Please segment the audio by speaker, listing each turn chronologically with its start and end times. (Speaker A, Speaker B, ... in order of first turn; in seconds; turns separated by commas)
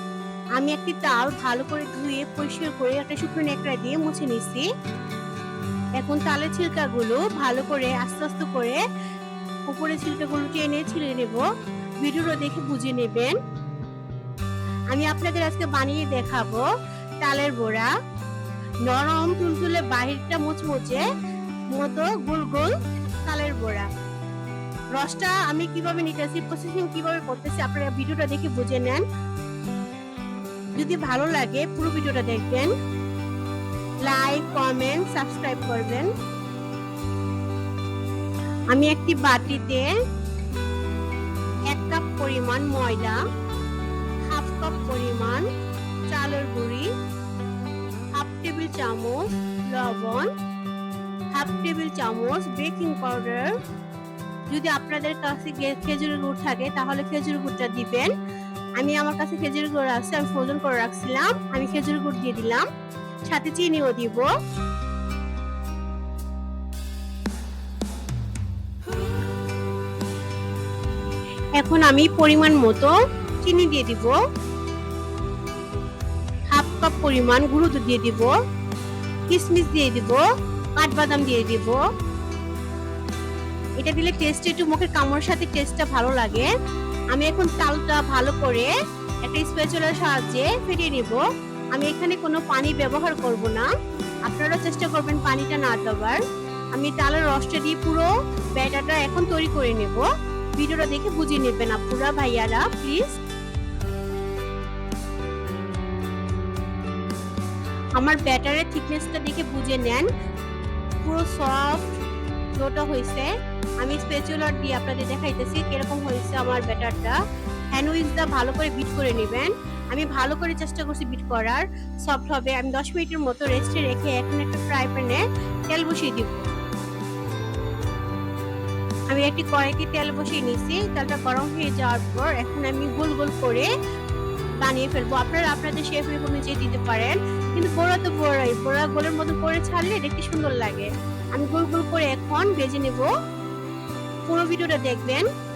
Speaker A: 0.6-4.7, Speaker A: 6.0-8.8, Speaker A: 9.7-11.5, Speaker A: 12.0-13.4, Speaker A: 14.9-16.7, Speaker A: 17.2-17.9, Speaker A: 18.9-21.1, Speaker A: 21.7-23.9, Speaker A: 24.9-29.1, Speaker A: 30.8-32.7, Speaker A: 34.0-36.1, Speaker A: 38.7-40.0, Speaker A: 41.7-43.2, Speaker A: 44.3-45.5, Speaker A: 46.1-46.9, Speaker A: 48.2-50.3, Speaker A: 51.3-53.5, Speaker A: 54.5-58.1, Speaker A: 58.8-62.7, Speaker A: 63.3-64.3, Speaker A: 71.6-74.2, Speaker A: 76.5-78.4, Speaker A: 79.3-80.2, Speaker A: 80.8-81.8, Speaker A: 83.8-86.5, Speaker A: 87.1-88.7, Speaker A: 89.3-91.2, Speaker A: 91.8-93.7, Speaker A: 94.3-96.2, Speaker A: 96.8-103.2, Speaker A: 108.0-110.1, Speaker A: 111.0-112.0, Speaker A: 112.6-113.3, Speaker A: 113.8-117.2, Speaker A: 117.7-126.5, Speaker A: 129.1-133.7, Speaker A: 134.6-143.1, Speaker A: 144.3-145.3